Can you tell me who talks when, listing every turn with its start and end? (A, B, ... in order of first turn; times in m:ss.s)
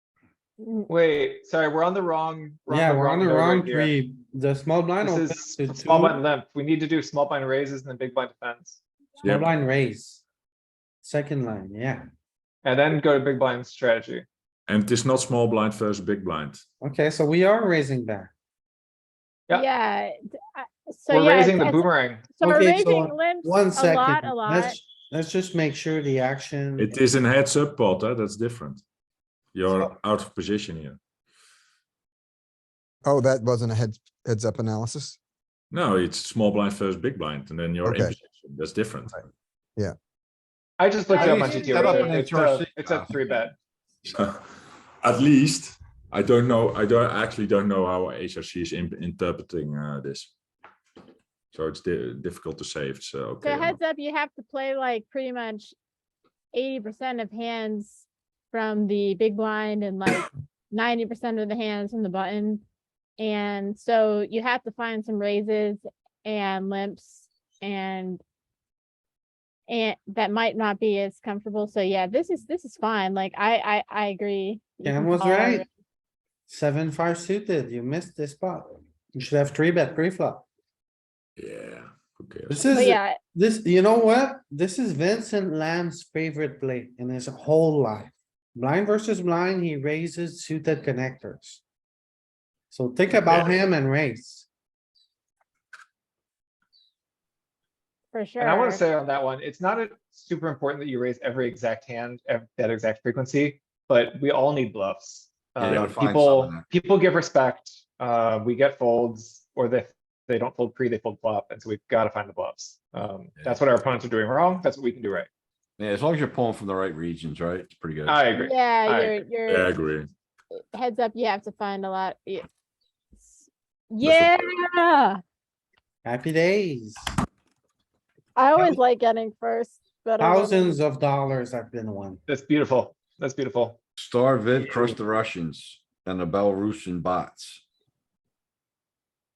0:00.6-0:00.9 A
0:00.9-0:04.0 B
0:02.7-0:06.2 C
0:05.0-0:08.8 B
0:09.2-0:09.5 D
0:09.2-0:10.2 C
0:11.0-0:12.0 C
0:12.6-0:14.3 B
0:14.7-0:16.6 D
0:16.8-0:18.3 C
0:19.5-0:24.8 A
0:21.1-0:22.3 B
0:22.4-0:26.9 C
0:26.8-0:28.8 D
0:29.5-0:31.0 D
0:33.0-0:35.2 E
0:35.7-0:39.2 D
0:37.8-0:38.2 E
0:40.8-0:43.6 B
0:41.1-0:42.2 A
0:41.2-0:43.1 F
0:44.1-0:44.4 D
0:45.0-0:50.3 D
0:51.5-0:53.8 D
0:53.4-0:55.7 A
0:56.5-1:02.6 A
1:03.2-1:08.2 A
1:09.7-1:15.7 A
1:14.8-1:15.7 C
1:16.5-1:20.4 C
1:21.4-1:22.6 D
1:22.5-1:31.6 C
1:22.7-1:23.2 A
1:32.7-1:34.5 C
1:33.2-1:33.6 D
1:38.1-1:38.8 A
1:38.4-1:55.3 B
1:45.6-1:46.6 F
1:55.8-1:58.3 F
1:58.1-1:59.2 B
1:58.4-1:59.7 A
1:59.5-2:00.1 D
2:00.5-2:02.5 A
2:03.2-2:05.2 A
2:04.0-2:04.3 D
2:06.0-2:07.1 C
2:08.4-2:10.8 A
2:10.2-2:12.2 C
2:12.3-2:13.8 B
2:14.0-2:17.6 F